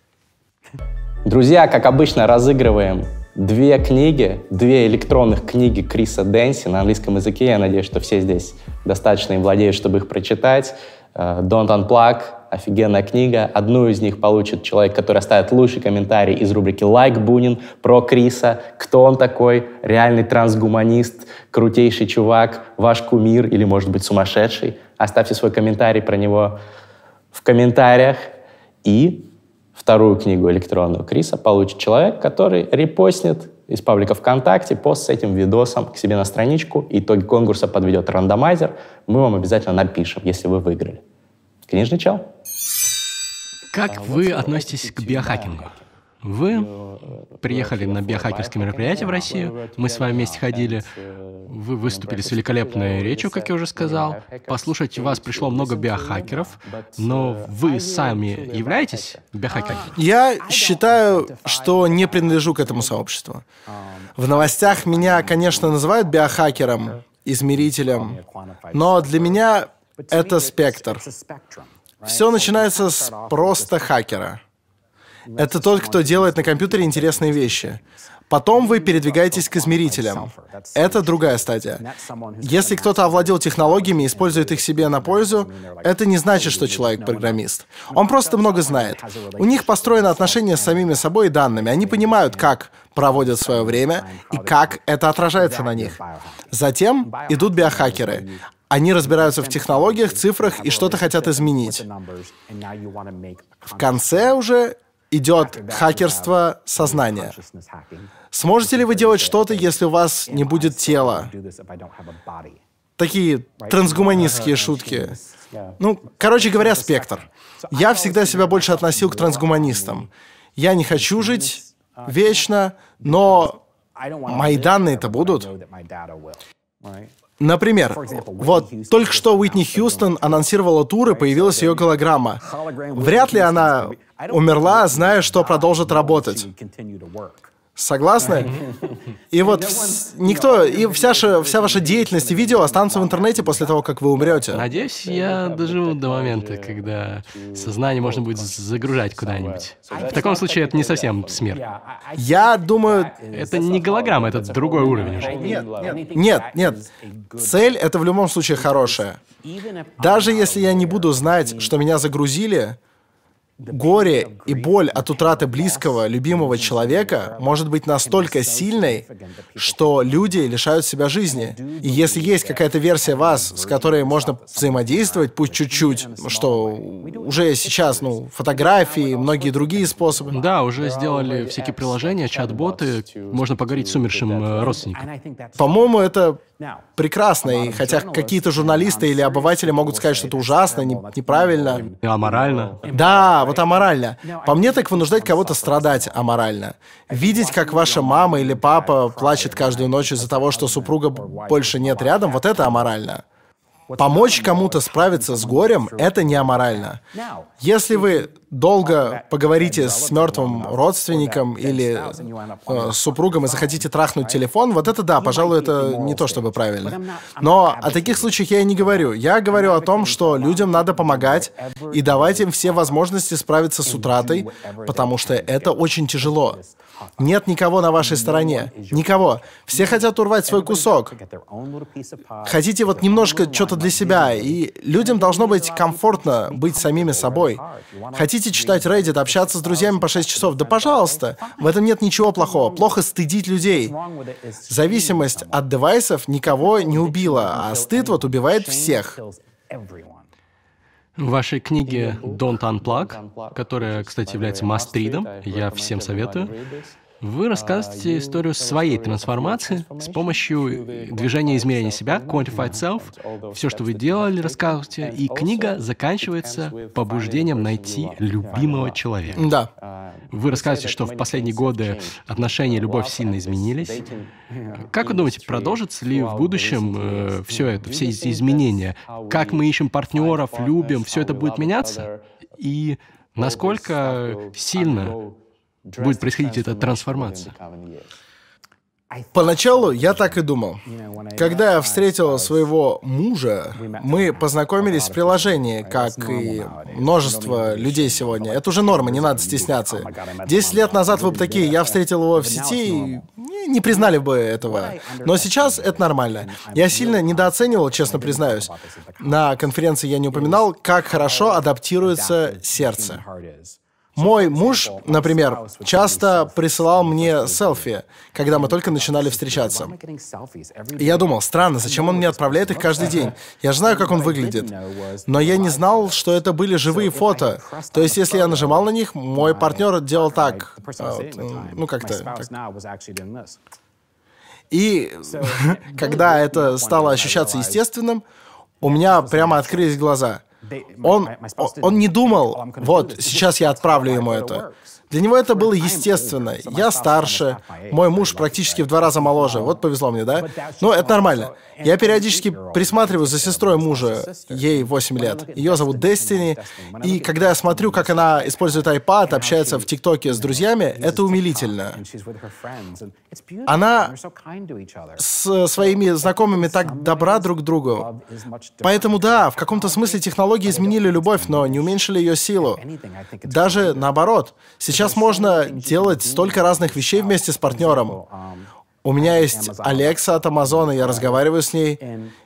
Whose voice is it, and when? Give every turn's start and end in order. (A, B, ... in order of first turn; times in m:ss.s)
0:01.2-0:26.6 A
0:27.3-0:41.0 A
0:41.7-0:42.3 A
0:43.7-0:50.9 B
0:51.5-0:59.9 B
0:59.9-1:03.4 C
1:04.2-1:08.2 C
1:08.7-1:11.0 C
1:12.0-1:14.4 C
1:15.4-1:21.8 C
1:22.4-1:36.0 C
1:36.5-1:41.8 C
1:43.6-1:47.4 C
1:48.3-1:51.3 C
1:53.0-1:55.2 C
1:55.8-2:03.6 C
2:04.2-2:05.5 C
2:07.4-2:12.4 C
2:12.9-2:16.5 C
2:17.8-2:18.6 C
2:19.3-2:24.6 C
2:24.5-2:31.6 B
2:32.2-2:33.2 C
2:33.3-2:35.4 B
2:35.1-2:36.0 A
2:35.2-2:39.2 C
2:40.0-2:42.8 C
2:43.6-3:00.4 C
3:00.3-3:05.1 B
3:05.6-3:06.4 C
3:07.0-3:11.9 C
3:12.0-3:12.9 B
3:12.9-3:23.2 C
3:23.9-3:27.0 C
3:27.6-3:46.6 C
3:47.2-3:51.2 C
3:52.4-4:04.0 C
4:04.7-4:09.2 C
4:11.2-4:16.6 B
4:17.2-4:29.5 B
4:29.3-4:29.7 C
4:30.3-4:34.1 B
4:34.8-4:45.2 B
4:46.0-4:47.5 B
4:49.3-4:50.8 C
4:51.4-5:13.2 C
5:14.2-5:20.0 C
5:20.9-5:24.7 C
5:25.2-5:32.5 C
5:34.7-5:38.2 C
5:38.8-5:40.4 C
5:41.0-6:02.0 C
6:03.6-6:04.1 C
6:05.2-6:08.1 C
6:08.8-6:12.8 C
6:13.4-6:18.2 C
6:19.0-6:22.0 C